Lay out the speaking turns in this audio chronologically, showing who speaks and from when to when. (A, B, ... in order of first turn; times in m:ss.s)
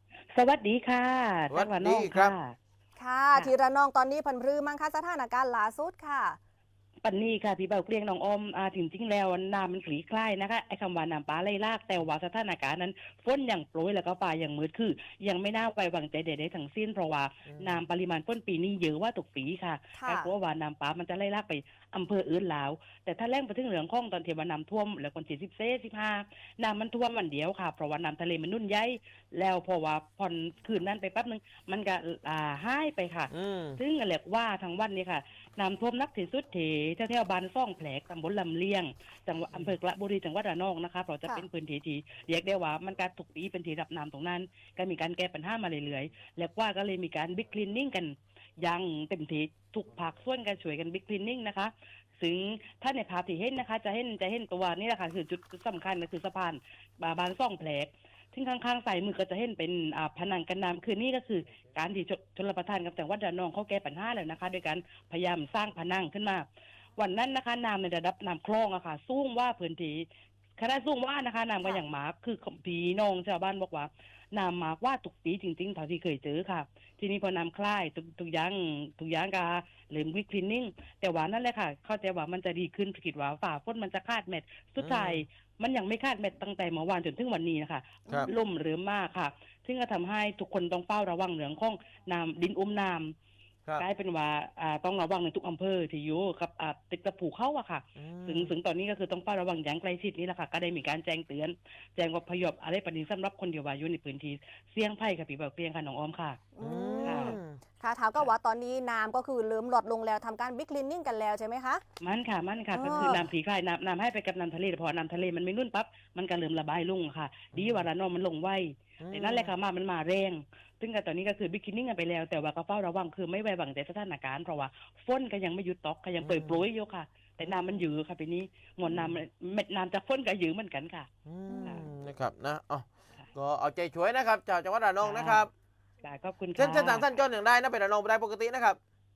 0:00.3-0:02.6 A
0:01.5-0:02.3 B
0:03.0-0:06.4 C
0:07.0-1:10.1 A
0:17.5-0:17.8 B
0:20.0-0:20.3 C
0:33.3-0:33.8 B
1:10.6-1:33.2 A
1:24.8-1:25.2 B
1:28.1-1:28.4 C
1:33.8-1:46.5 A
1:38.0-1:38.5 B
1:46.6-1:51.8 C
1:46.6-1:47.6 B
1:47.0-1:47.4 A
1:52.0-2:11.1 A
1:52.7-1:53.3 C
1:57.5-1:57.9 B
1:59.0-1:59.5 B
2:06.2-2:06.7 B
2:07.4-2:07.9 B
2:08.9-2:09.2 B
2:11.3-2:15.5 B
2:11.5-2:11.9 C
2:15.0-2:15.5 A
2:16.0-2:17.1 A
2:16.6-2:18.8 B